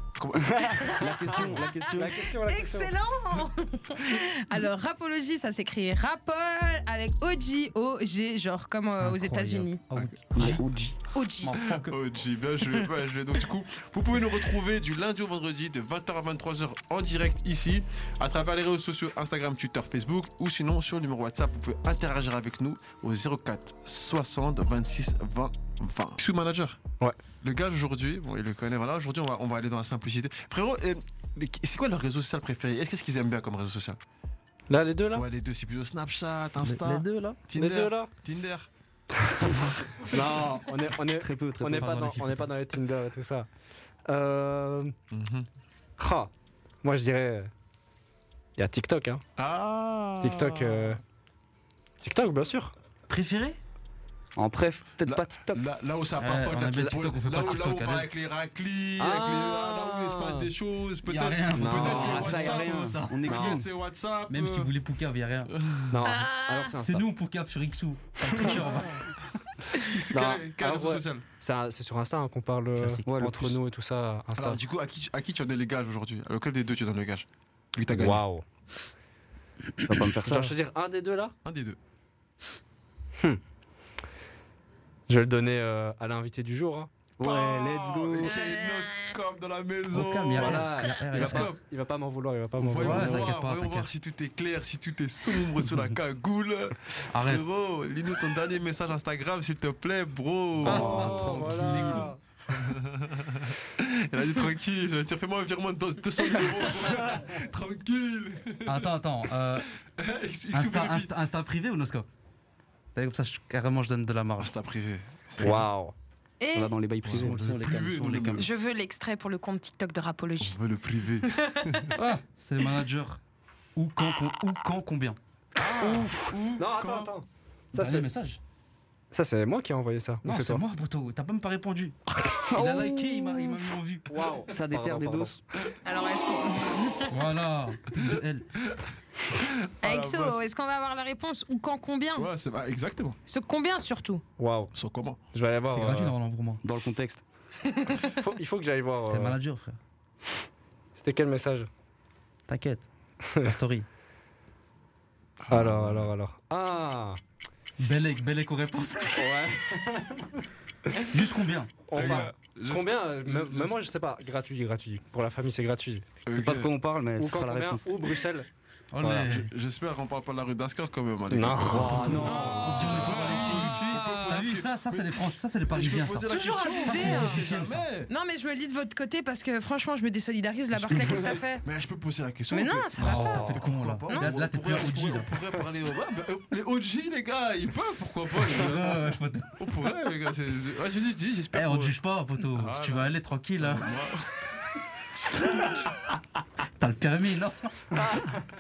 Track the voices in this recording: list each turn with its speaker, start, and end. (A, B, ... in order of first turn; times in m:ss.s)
0:00.2-0:01.6 A
0:00.4-0:02.3 B
0:01.0-0:02.9 C
0:02.0-0:09.8 D
0:09.0-0:10.7 E
0:10.4-0:11.0 B
0:11.1-0:11.6 D
0:11.3-0:12.0 E
0:11.6-0:26.8 A
0:27.4-0:34.0 A
0:34.7-0:35.3 C
0:35.1-0:38.7 A
0:36.6-0:37.4 E
0:37.5-0:38.1 C
0:40.1-0:43.5 C
0:40.3-0:40.6 B
0:41.1-0:42.1 B
0:41.8-0:42.5 E
0:44.1-0:44.9 C
0:45.1-0:45.5 A
0:46.0-0:46.3 C
0:46.8-0:47.5 C
0:48.6-0:49.2 C
0:49.4-0:51.0 A
0:50.2-0:51.0 C
0:52.0-0:52.7 C
0:53.1-0:53.6 E
0:54.4-0:55.6 B
0:55.0-1:04.7 A
0:56.2-0:58.1 E
0:59.0-1:00.5 C
1:01.0-1:03.2 E
1:01.6-1:02.5 C
1:01.7-1:03.7 B
1:03.3-1:03.6 C
1:04.3-1:05.5 E
1:05.5-1:06.1 A
1:05.9-1:07.1 C
1:06.0-1:06.8 D
1:06.8-1:09.4 E
1:09.8-1:11.2 A
1:10.1-1:10.4 B
1:10.1-1:14.6 C
1:12.8-1:13.1 E
1:13.1-1:13.6 B
1:14.4-1:18.2 A
1:17.9-1:18.4 C
1:19.8-1:20.5 B
1:20.2-1:21.4 C
1:21.4-1:21.8 A
1:25.1-1:26.9 C
1:27.2-1:28.3 B
1:27.2-1:31.6 A
1:28.2-1:29.2 D
1:29.9-1:31.5 E
1:30.3-1:33.4 C
1:30.5-1:31.1 D
1:32.6-1:48.9 A
1:32.8-1:33.9 E
1:35.6-1:35.9 E
1:37.1-1:37.4 E
1:40.6-1:42.2 C
1:40.6-1:42.1 E
1:48.6-1:49.7 E
1:49.6-1:51.2 A
1:50.5-1:52.1 E
1:52.9-1:54.5 E
1:54.4-1:55.6 A
1:55.4-1:56.0 C
1:55.4-1:55.7 B
1:56.4-1:56.8 D
1:56.5-1:57.4 B
1:57.0-1:58.5 A
1:57.1-1:58.5 E
1:58.4-2:00.6 D
2:00.4-2:02.0 A
2:01.2-2:01.8 D
2:02.0-2:03.2 E
2:03.8-2:05.2 E
2:05.6-2:06.2 A
2:05.7-2:08.1 C
2:05.8-2:06.3 B
2:06.3-2:06.6 E
2:06.7-2:07.1 A
2:07.7-2:08.4 E
2:09.1-2:10.6 C
2:10.2-2:14.1 E
2:12.2-2:13.8 B
2:14.1-2:15.4 C
2:14.5-2:15.4 B
2:15.8-2:17.2 D
2:17.1-2:18.5 E
2:19.3-2:20.4 A
2:19.8-2:22.3 D
2:22.2-2:23.2 A
2:23.3-2:24.2 D
2:24.4-2:24.7 C
2:24.8-2:25.2 A
2:25.3-2:26.2 C
2:25.7-2:26.6 E
2:26.6-2:27.2 B
2:28.0-2:29.4 C
2:29.1-2:29.8 E
2:31.0-2:31.7 C
2:32.5-2:32.9 E
2:33.4-2:33.9 E
2:35.4-2:36.1 A
2:35.5-2:37.2 C
2:37.8-2:39.4 E
2:39.2-2:41.1 C
2:41.1-2:42.3 E
2:41.9-2:46.2 C
2:41.9-2:43.8 A
2:46.3-2:46.7 A
2:46.3-2:48.0 B
2:47.2-2:48.5 C
2:48.9-2:49.5 E
2:49.0-2:49.5 B
2:49.2-2:58.1 A
2:51.3-2:53.6 C
2:51.6-2:53.4 B
2:51.7-2:57.9 E
2:53.5-2:54.4 D
2:56.3-2:57.4 D
2:58.1-3:01.6 D
3:00.9-3:09.1 A
3:02.5-3:04.3 D
3:03.0-3:05.3 E
3:08.5-3:09.6 E
3:09.6-3:11.9 A
3:11.5-3:13.9 E
3:12.6-3:14.3 A
3:16.8-3:17.7 E
3:18.0-3:18.4 C